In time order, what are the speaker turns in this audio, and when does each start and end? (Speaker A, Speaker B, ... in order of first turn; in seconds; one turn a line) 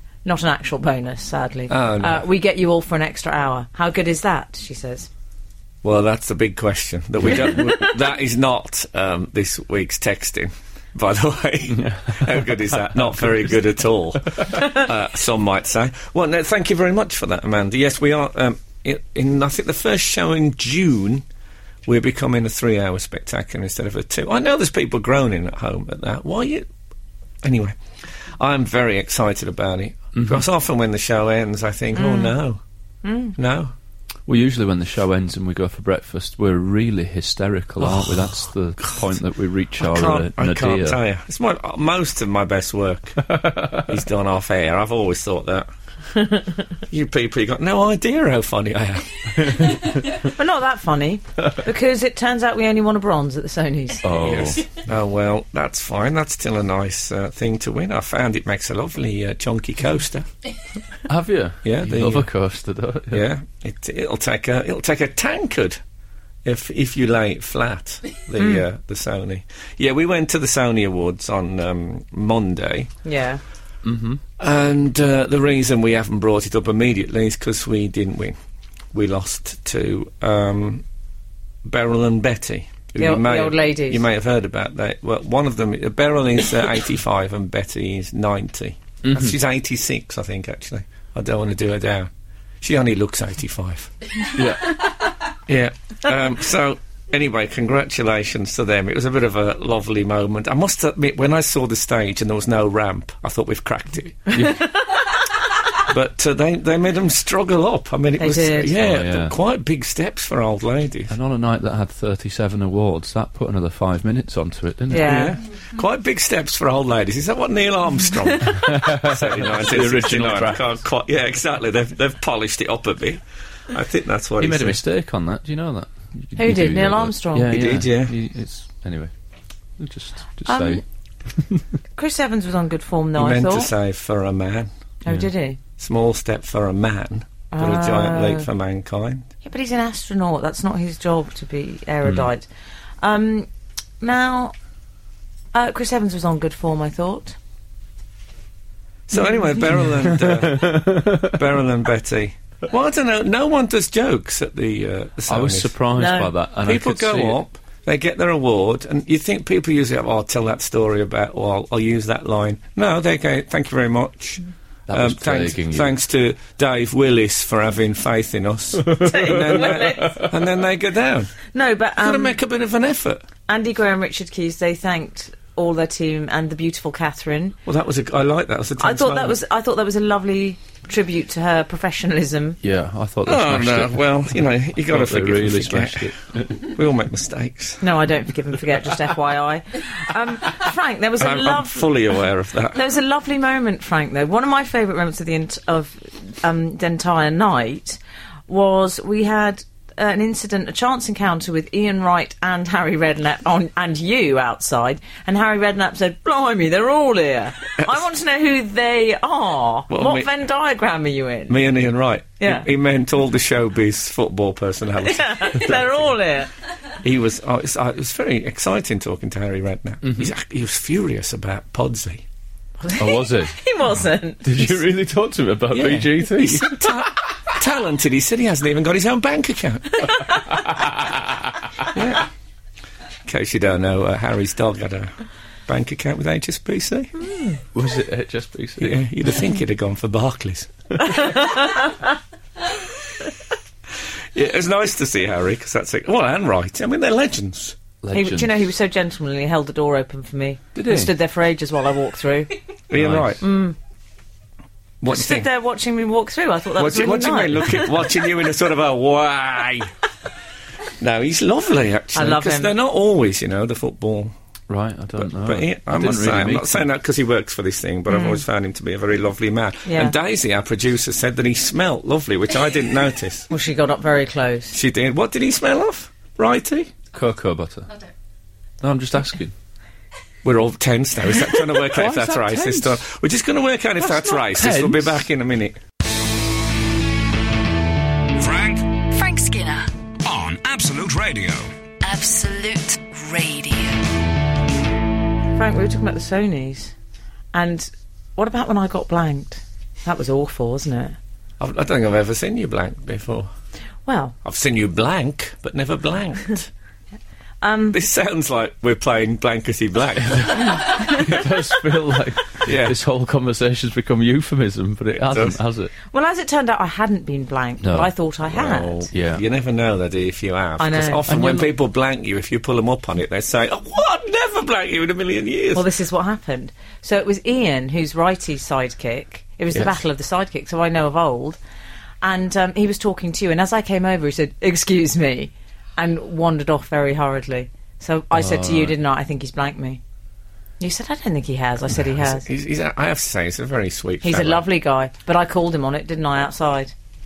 Speaker A: 0.2-5.1
Speaker B: 1.7-2.2
Speaker B: 5.8-21.2
Speaker C: 11.7-13.4
Speaker B: 21.9-26.7
Speaker B: 27.4-27.8
Speaker B: 28.4-32.6
Speaker C: 30.1-30.4
Speaker A: 31.9-32.4
Speaker A: 33.0-33.3
Speaker B: 33.4-33.7
Speaker C: 34.3-41.0
Speaker B: 37.8-38.3
Speaker B: 39.8-45.7
Speaker C: 43.3-43.8
Speaker A: 46.1-46.5
Speaker B: 46.9-50.0
Speaker A: 50.1-54.2
Speaker C: 54.0-54.6
Speaker B: 54.1-60.3
Speaker C: 61.1-63.2
Speaker B: 61.6-62.3
Speaker B: 63.1-65.8
Speaker B: 66.4-72.9
Speaker A: 68.4-68.6
Speaker A: 73.0-73.4
Speaker C: 73.8-74.2
Speaker B: 74.4-78.3
Speaker B: 78.9-80.8
Speaker B: 81.6-92.1
Speaker A: 83.0-84.0
Speaker C: 89.0-89.3
Speaker B: 92.6-93.9
Speaker C: 94.3-94.8
Speaker B: 95.5-104.5
Speaker A: 104.3-104.8
Speaker C: 104.3-104.6
Speaker B: 105.8-111.1
Speaker A: 108.2-108.7
Speaker C: 108.8-109.3
Speaker C: 111.1-115.3
Speaker A: 114.9-115.4
Speaker B: 115.0-124.8
Speaker C: 118.5-120.7
Speaker C: 124.4-129.1
Speaker A: 126.3-127.8
Speaker B: 127.5-128.2
Speaker C: 129.8-130.8
Speaker A: 130.5-130.8
Speaker A: 131.9-133.7
Speaker B: 133.1-134.7
Speaker A: 135.0-135.6
Speaker B: 135.8-139.3
Speaker A: 137.5-138.5
Speaker A: 139.4-142.5
Speaker A: 143.0-143.5
Speaker A: 144.0-144.5
Speaker A: 145.5-147.3
Speaker B: 149.1-155.7
Speaker A: 149.1-149.7
Speaker C: 149.9-151.4
Speaker C: 155.3-157.4
Speaker A: 155.9-156.3
Speaker B: 156.6-171.3
Speaker C: 164.9-165.9
Speaker A: 168.9-170.3
Speaker C: 169.8-170.2
Speaker A: 171.5-172.4
Speaker B: 172.0-173.2
Speaker A: 173.5-177.6
Speaker B: 177.7-179.4
Speaker A: 178.8-182.6
Speaker C: 182.6-184.3
Speaker B: 183.2-187.8
Speaker C: 184.8-186.6
Speaker A: 187.8-192.1
Speaker B: 191.2-192.8
Speaker A: 192.7-211.7
Speaker B: 209.9-210.3
Speaker B: 211.5-216.1
Speaker A: 212.4-212.7
Speaker A: 215.0-216.5
Speaker B: 217.0-222.2
Speaker C: 220.0-220.3
Speaker A: 222.8-224.8
Speaker C: 223.0-223.6
Speaker C: 224.4-227.0
Speaker B: 225.7-230.1
Speaker A: 230.0-230.4
Speaker B: 231.9-232.3
Speaker B: 233.2-235.1
Speaker B: 235.7-237.1
Speaker C: 237.7-239.0
Speaker B: 238.8-240.8
Speaker A: 241.1-242.0
Speaker B: 244.3-247.8
Speaker C: 248.0-248.6
Speaker A: 248.1-252.6
Speaker C: 250.8-251.1
Speaker B: 252.9-253.4
Speaker C: 252.9-253.4
Speaker A: 253.4-253.8
Speaker B: 255.0-255.5
Speaker A: 255.1-257.9
Speaker B: 256.8-259.9
Speaker B: 261.0-264.3
Speaker A: 262.1-262.7
Speaker C: 264.7-266.9
Speaker B: 265.2-273.5
Speaker A: 268.1-268.4
Speaker A: 269.9-270.1
Speaker A: 273.5-274.8
Speaker B: 274.7-276.9
Speaker C: 277.1-277.9
Speaker C: 278.8-279.5
Speaker B: 280.4-285.8
Speaker C: 281.8-283.0
Speaker C: 284.0-285.2
Speaker D: 288.4-288.9
Speaker E: 289.1-289.9
Speaker D: 290.2-291.7
Speaker E: 292.0-294.0
Speaker A: 295.6-296.9
Speaker A: 297.5-301.2
Speaker B: 301.6-303.5
Speaker A: 304.0-304.3
Speaker B: 304.4-306.7
Speaker A: 307.6-308.0
Speaker B: 307.9-310.9
Speaker C: 310.4-315.9
Speaker B: 312.6-312.9
Speaker B: 315.1-315.6
Speaker A: 316.1-319.1
Speaker C: 317.8-318.1
Speaker B: 318.5-325.8
Speaker C: 319.1-319.4
Speaker A: 320.8-321.2
Speaker C: 321.3-321.7
Speaker A: 325.7-331.6
Speaker A: 332.2-340.0
Speaker C: 338.3-338.9
Speaker A: 340.8-342.4
Speaker B: 341.9-344.6
Speaker A: 344.2-346.9